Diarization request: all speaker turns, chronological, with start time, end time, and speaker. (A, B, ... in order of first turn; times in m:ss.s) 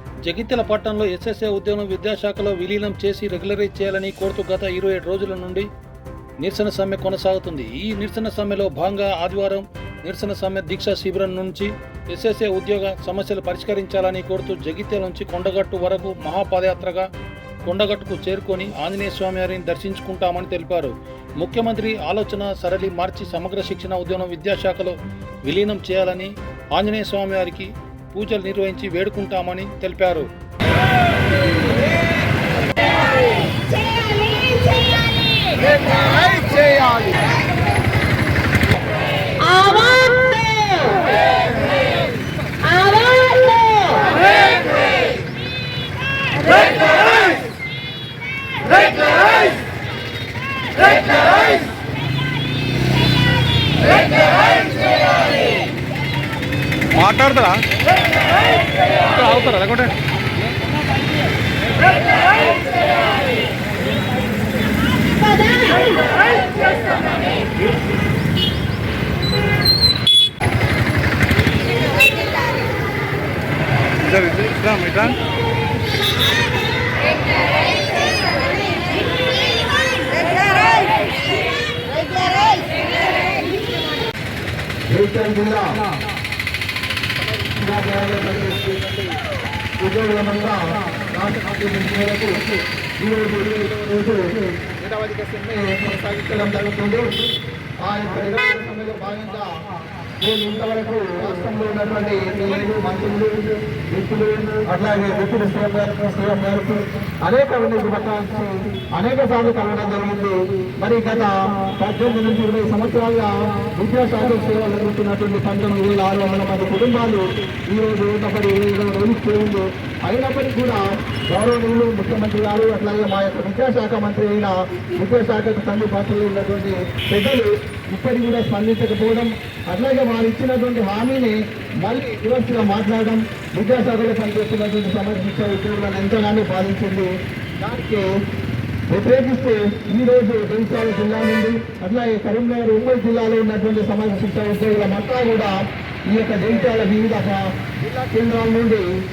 0:00.2-0:05.6 A
0:06.4-0:17.1 A
0:17.7-0:30.3 A
0:33.7-0:35.4 B
0:36.1-0:37.1 C
0:39.4-0:41.1 B
0:42.6-0:44.2 B
0:57.0-0:57.6 A
0:59.1-0:59.9 A
0:59.2-0:59.7 B
1:05.0-1:06.1 B
1:14.1-1:15.2 B
1:24.9-1:25.8 C
1:27.4-1:29.2 C
1:29.8-1:32.5 C
1:33.0-1:37.1 C
1:37.8-1:39.6 C
1:40.2-2:18.1 C
2:18.9-2:28.9 C